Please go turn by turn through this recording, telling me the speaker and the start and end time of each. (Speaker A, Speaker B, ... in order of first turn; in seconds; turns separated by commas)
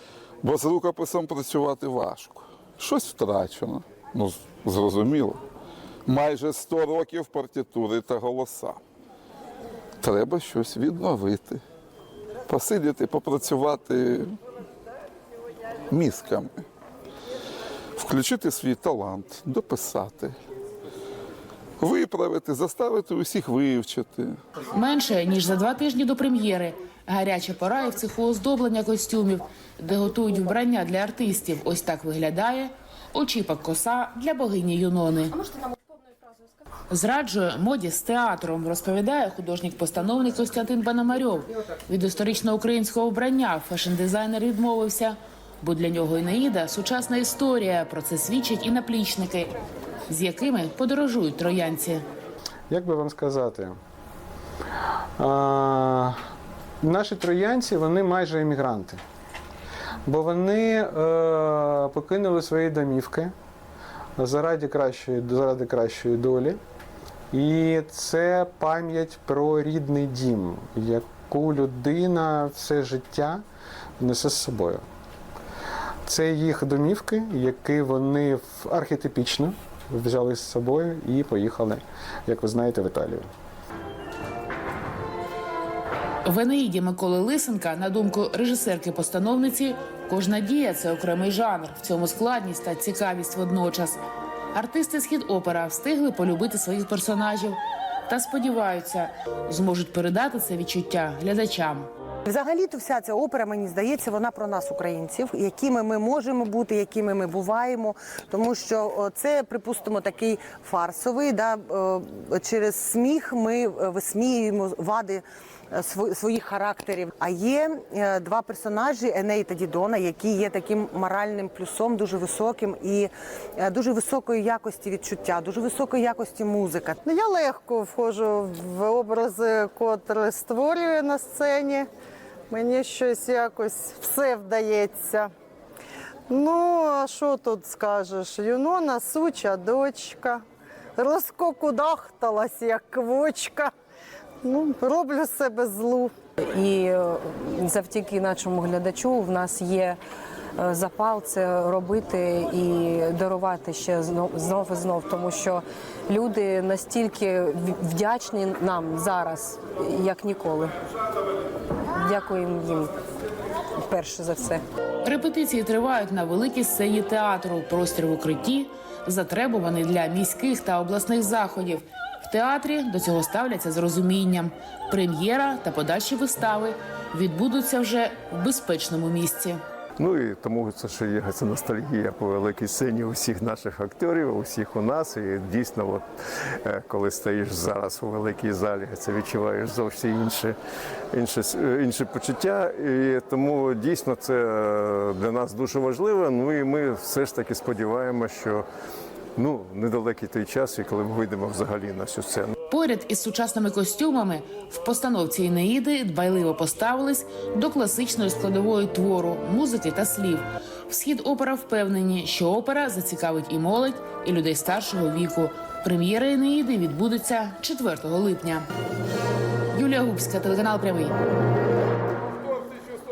Speaker A: 0.4-5.4, Speaker A: 6.0-8.7, Speaker A: 10.0-11.6, Speaker A: 12.5-14.3, Speaker A: 15.9-16.6, Speaker A: 18.0-20.3, Speaker A: 21.8-24.3, Speaker B: 24.7-35.4, Speaker B: 36.9-49.5, Speaker B: 50.1-52.0, Speaker C: 52.7-53.8, Speaker C: 55.2-56.2, Speaker C: 56.8-59.0, Speaker C: 60.0-63.3, Speaker C: 64.2-66.6, Speaker C: 67.3-73.4, Speaker C: 74.0-74.8, Speaker C: 76.0-83.3, Speaker B: 86.2-94.0, Speaker B: 94.5-101.9, Speaker D: 102.2-127.0, Speaker E: 127.0-131.9, Speaker E: 132.5-135.3, Speaker E: 136.3-140.4, Speaker E: 140.9-143.7, Speaker E: 144.4-146.1, Speaker F: 146.5-150.0, Speaker F: 150.6-160.7, Speaker F: 161.9-162.9, Speaker F: 163.8-164.6, Speaker B: 165.0-179.6, Speaker G: 180.0-186.0, Speaker G: 186.6-190.6, Speaker G: 191.1-198.7, Speaker G: 199.3-202.6, Speaker B: 202.7-218.6, Speaker B: 219.7-221.2